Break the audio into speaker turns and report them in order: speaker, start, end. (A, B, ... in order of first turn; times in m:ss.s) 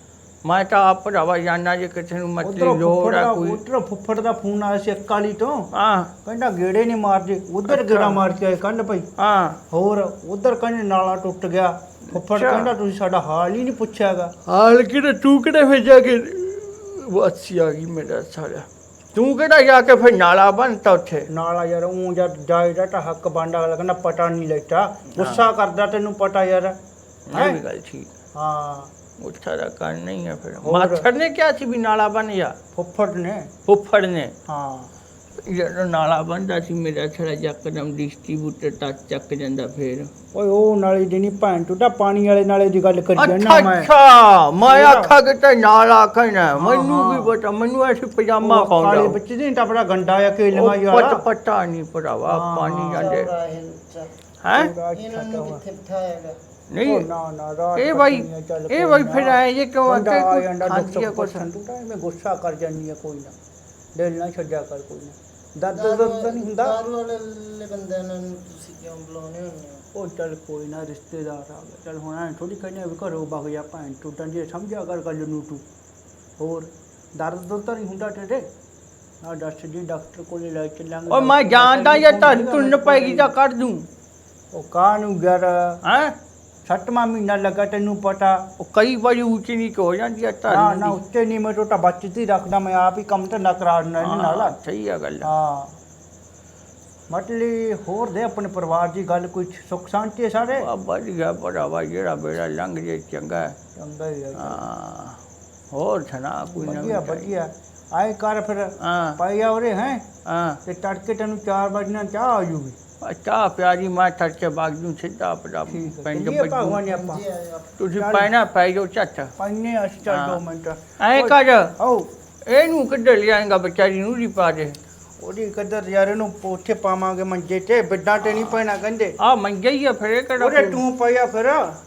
0:00.4-0:03.6 A
0:02.4-0:05.7 B
0:05.7-0:06.1 A
0:06.2-0:09.1 B
0:07.7-0:08.2 A
0:09.2-0:09.6 A
0:09.7-0:14.3 B
0:12.1-0:12.7 A
0:14.4-0:21.3 A
0:21.3-0:26.8 B
0:25.2-0:25.5 A
0:27.3-0:28.1 A
0:27.3-0:27.6 B
0:28.3-0:28.9 B
0:29.2-0:32.6 A
0:30.6-0:31.1 B
0:32.7-0:33.5 B
0:33.7-0:34.3 A
0:34.5-0:34.9 B
0:35.4-0:40.1 A
0:40.3-0:43.9 B
0:43.2-0:49.2 A
0:44.6-0:45.2 B
0:46.6-0:47.4 B
0:48.4-0:51.2 B
0:50.5-0:53.3 A
0:52.3-0:53.2 B
0:52.9-0:54.1 C
0:54.4-0:54.7 A
0:54.5-0:55.6 B
0:54.9-0:56.4 C
0:56.7-0:57.1 A
0:56.8-1:03.3 B
0:57.8-1:01.5 A
1:04.0-1:06.8 B
1:05.6-1:09.9 C
1:09.9-1:15.6 B
1:16.4-1:18.5 B
1:19.2-1:23.4 B
1:21.1-1:23.9 A
1:24.5-1:25.8 B
1:25.8-1:26.2 A
1:26.7-1:28.4 B
1:28.6-1:31.0 A
1:30.5-1:34.6 B
1:34.0-1:35.3 A
1:35.2-1:35.8 B
1:37.1-1:40.7 B
1:40.5-1:43.6 A
1:43.8-1:44.7 B
1:44.4-1:45.2 A
1:45.7-1:47.3 A
1:46.6-1:50.0 B
1:48.8-1:49.2 A
1:50.2-1:50.6 A
1:50.6-1:52.8 B
1:53.0-1:57.0 A
1:55.7-1:57.3 B
1:56.9-1:57.8 C
1:57.8-1:59.3 A
1:57.9-1:58.3 B
1:59.4-2:02.1 B
2:00.1-2:00.4 A
2:01.0-2:01.7 A
2:02.5-2:04.8 A
2:05.2-2:09.2 B
2:09.2-2:10.8 A
2:10.4-2:11.8 B